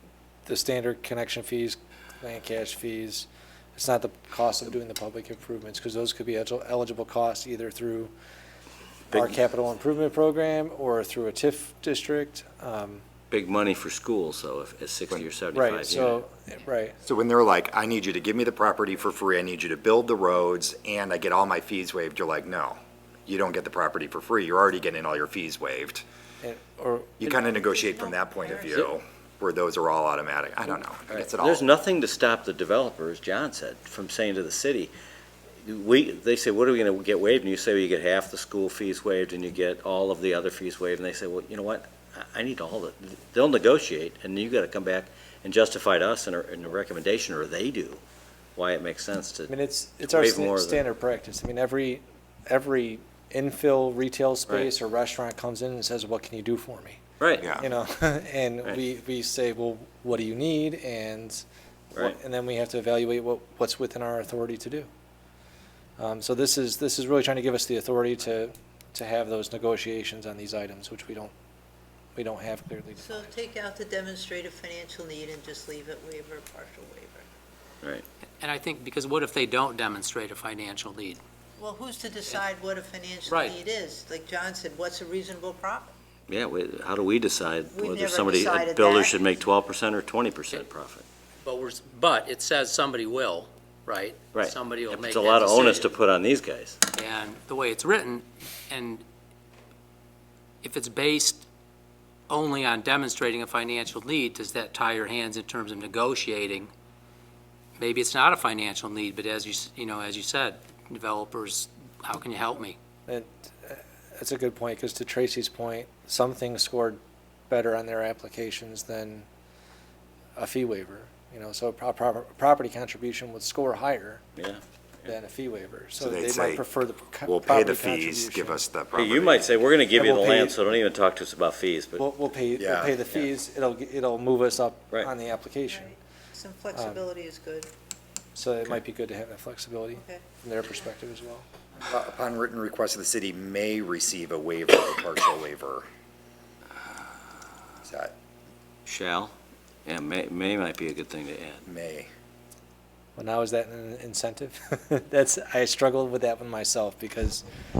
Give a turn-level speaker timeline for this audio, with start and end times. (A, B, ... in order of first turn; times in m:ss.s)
0:00.4-0:08.1 A
0:09.1-0:13.0 A
0:13.3-0:16.1 B
0:15.5-0:17.0 A
0:17.0-0:26.0 C
0:26.4-0:27.4 A
0:27.2-0:31.6 C
0:27.6-0:28.9 D
0:31.1-0:34.9 B
0:35.6-0:48.0 B
0:48.6-0:49.5 B
0:49.5-0:57.0 A
0:50.0-0:50.8 B
0:57.2-0:57.5 B
0:57.4-0:57.6 C
0:57.6-1:04.9 A
1:06.0-1:11.3 A
1:12.1-1:13.3 A
1:13.0-1:17.2 D
1:18.4-1:21.2 E
1:21.6-1:25.9 D
1:23.3-1:23.6 E
1:26.3-1:31.0 B
1:27.7-1:29.3 D
1:31.4-1:35.9 E
1:34.3-1:36.8 B
1:36.9-1:39.0 E
1:40.6-1:41.4 E
1:42.3-1:46.7 E
1:47.8-1:52.8 E
1:53.1-1:59.3 A
2:00.4-2:04.2 A
2:05.0-2:08.6 A
2:06.0-2:06.6 C
2:07.2-2:09.5 C
2:08.9-2:12.0 B
2:09.9-2:10.6 A
2:12.0-2:15.9 A
2:12.6-2:13.0 C
2:15.7-2:17.7 D
2:16.7-2:17.0 A
2:18.3-2:21.4 A
2:20.0-2:20.2 D
2:21.9-2:25.8 C
2:27.8-2:28.1 C
2:28.8-2:29.3 B
2:29.8-2:31.6 B
2:31.6-2:32.1 C
2:33.2-2:37.4 A